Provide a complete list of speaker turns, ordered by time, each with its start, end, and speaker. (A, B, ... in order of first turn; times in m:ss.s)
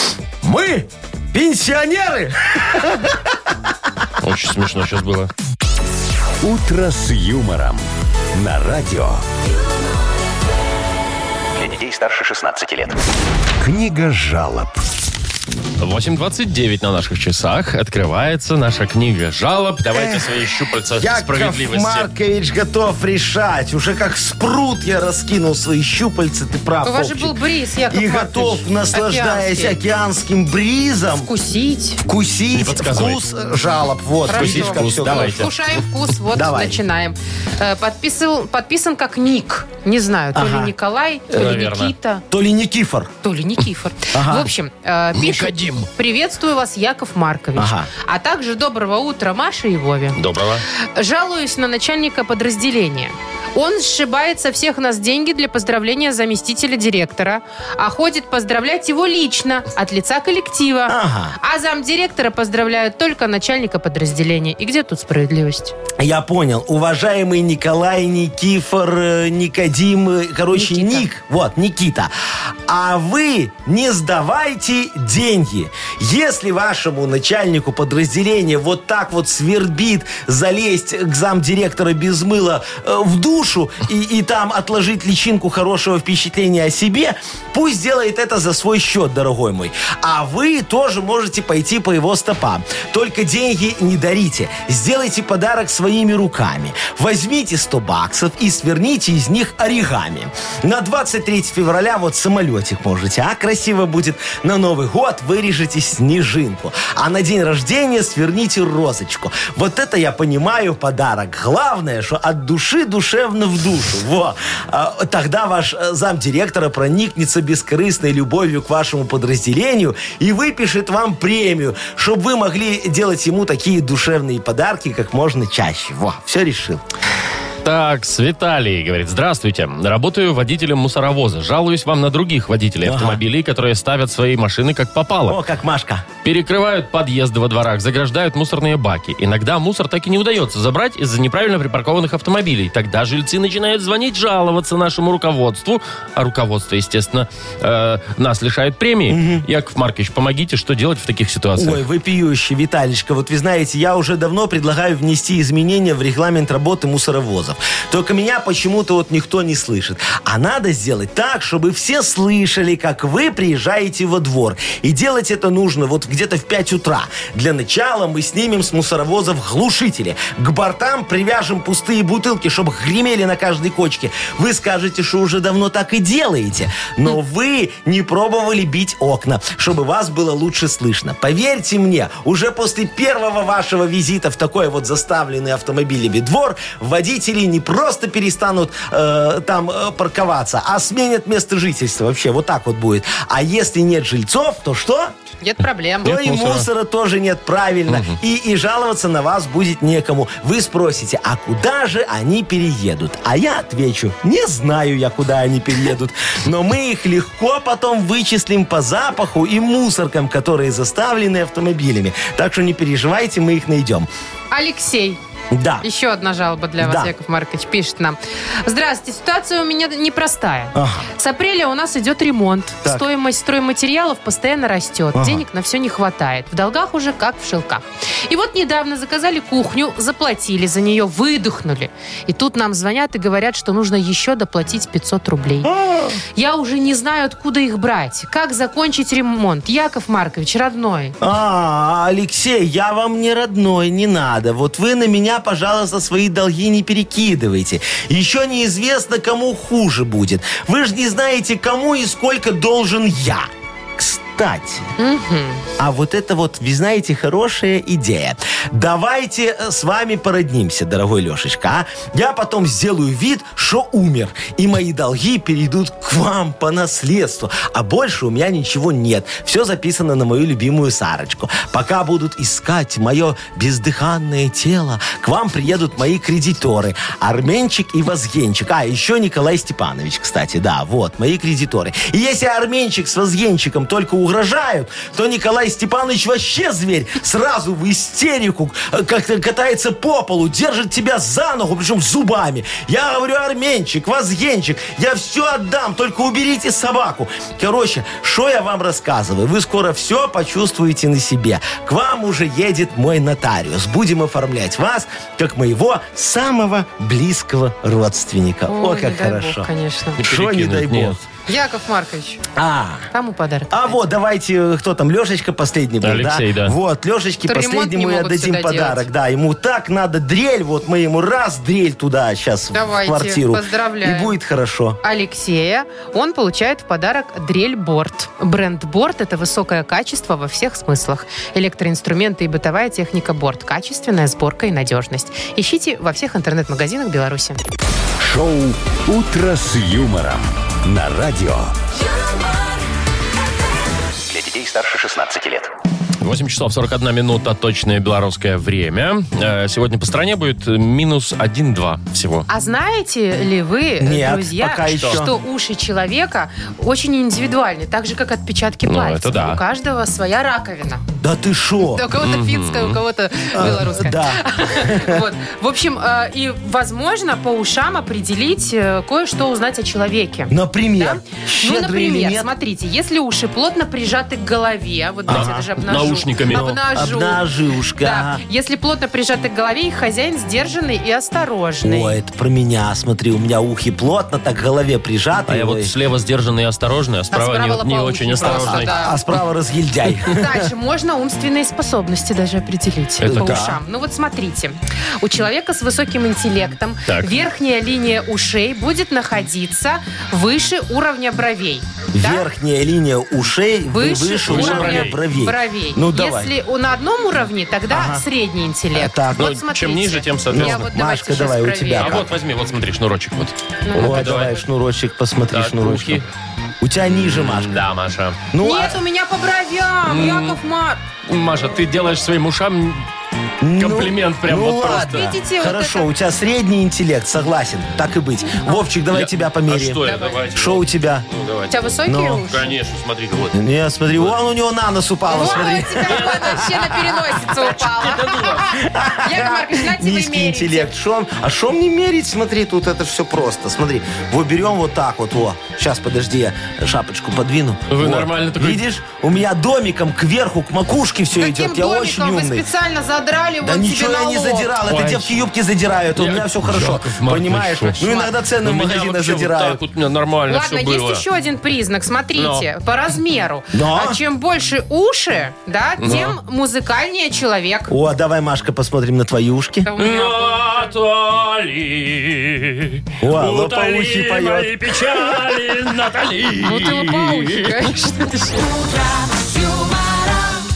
0:00.4-0:03.5 A
0:04.2-0:05.3 B
0:06.4-0:07.8 C
0:08.3-0:09.2 C
0:11.5-0:13.0 D
0:13.6-0:14.8 C
0:15.8-0:22.1 B
0:19.9-0:20.3 A
0:21.0-0:27.4 A
0:26.8-0:29.8 E
0:27.9-0:31.3 A
0:31.2-0:32.0 E
0:32.0-0:35.5 A
0:32.5-0:33.2 B
0:34.2-0:42.2 E
0:34.3-0:35.5 B
0:36.3-0:36.8 A
0:40.3-0:40.7 A
0:41.3-0:41.9 B
0:42.3-0:43.1 A
0:43.2-0:50.2 E
0:44.1-0:44.5 A
0:45.1-0:45.9 B
0:47.6-0:47.9 A
0:50.2-0:50.6 B
0:51.0-1:05.7 E
1:00.9-1:01.4 A
1:06.0-1:12.1 A
1:10.5-1:11.1 E
1:12.7-2:06.8 A
2:07.6-2:15.4 B
2:12.8-2:13.2 A
2:15.3-2:16.0 A
2:16.2-2:31.8 B
2:29.1-2:29.4 A
2:31.6-3:15.1 A
3:15.4-3:16.1 E
3:16.0-3:16.7 B
3:16.0-3:34.1 A
3:17.9-3:18.2 B
3:34.5-3:35.2 E
3:35.5-3:35.8 A
3:35.8-3:55.7 E
3:36.8-3:37.1 A
3:40.7-3:41.0 A
3:45.1-3:45.4 A
3:55.6-3:56.2 A
3:56.3-4:01.2 E
4:01.2-4:14.9 A
4:15.0-4:15.6 E
4:15.8-5:11.2 A
5:08.7-5:10.2 E
5:10.2-5:11.2 B
5:11.5-5:12.4 E
5:12.6-5:13.1 A
5:13.1-5:14.0 E
5:13.7-5:25.0 A
5:16.0-5:16.8 B
5:17.4-5:19.1 E
5:22.7-5:24.3 E
5:25.0-5:37.6 E
5:38.2-5:41.7 C
5:42.1-5:42.6 F
5:44.2-5:45.7 D
5:46.2-5:52.5 B
5:52.5-6:01.0 E
5:54.0-5:55.3 A
5:54.9-5:55.2 B
5:58.8-5:59.6 B
6:01.2-6:02.0 A
6:01.9-6:17.4 E
6:02.2-6:03.0 B
6:03.5-6:05.2 A
6:10.5-6:12.5 A
6:15.3-6:15.7 A
6:15.3-6:16.7 B
6:16.4-6:18.4 A
6:18.0-6:22.2 E
6:21.8-6:25.9 A
6:25.5-6:29.0 B
6:27.3-6:29.2 E
6:28.4-6:30.6 A
6:30.3-6:42.4 E
6:33.2-6:33.7 B
6:33.3-6:33.8 A
6:37.1-6:37.4 B
6:42.1-6:46.5 A
6:43.9-6:52.2 E
6:44.5-6:45.2 B
6:47.9-6:48.2 A
6:48.9-6:49.6 A
6:49.4-6:50.8 B
6:50.5-6:52.3 A
6:52.0-6:54.6 B
6:53.8-6:54.4 E
6:53.9-6:56.3 A
6:55.5-6:56.3 B
6:56.8-6:57.8 A
6:57.1-6:58.4 B
6:58.5-6:59.0 A
6:58.6-7:01.0 E
7:00.1-7:00.6 B
7:01.3-7:03.1 B
7:03.6-7:11.3 A
7:03.8-7:05.3 B
7:04.8-7:06.1 E
7:09.1-7:13.6 B
7:11.7-7:12.7 E
7:12.0-7:12.5 A
7:13.5-7:17.2 A
7:15.3-7:20.9 E
7:15.4-7:18.7 B
7:18.7-7:32.7 A
7:27.9-7:28.8 B
7:31.4-7:34.7 E
7:33.6-7:39.8 A
7:34.9-7:35.4 B
7:36.2-7:38.0 B
7:38.0-7:38.3 E
7:38.6-7:41.2 B
7:40.5-7:47.9 E
7:42.4-7:42.7 B
7:43.7-7:44.2 A
7:46.0-7:46.4 B
7:47.9-7:49.9 A
7:49.8-7:50.9 E
7:50.0-7:58.4 B
7:53.2-7:55.0 A
7:56.6-7:58.4 E
7:58.5-8:00.6 F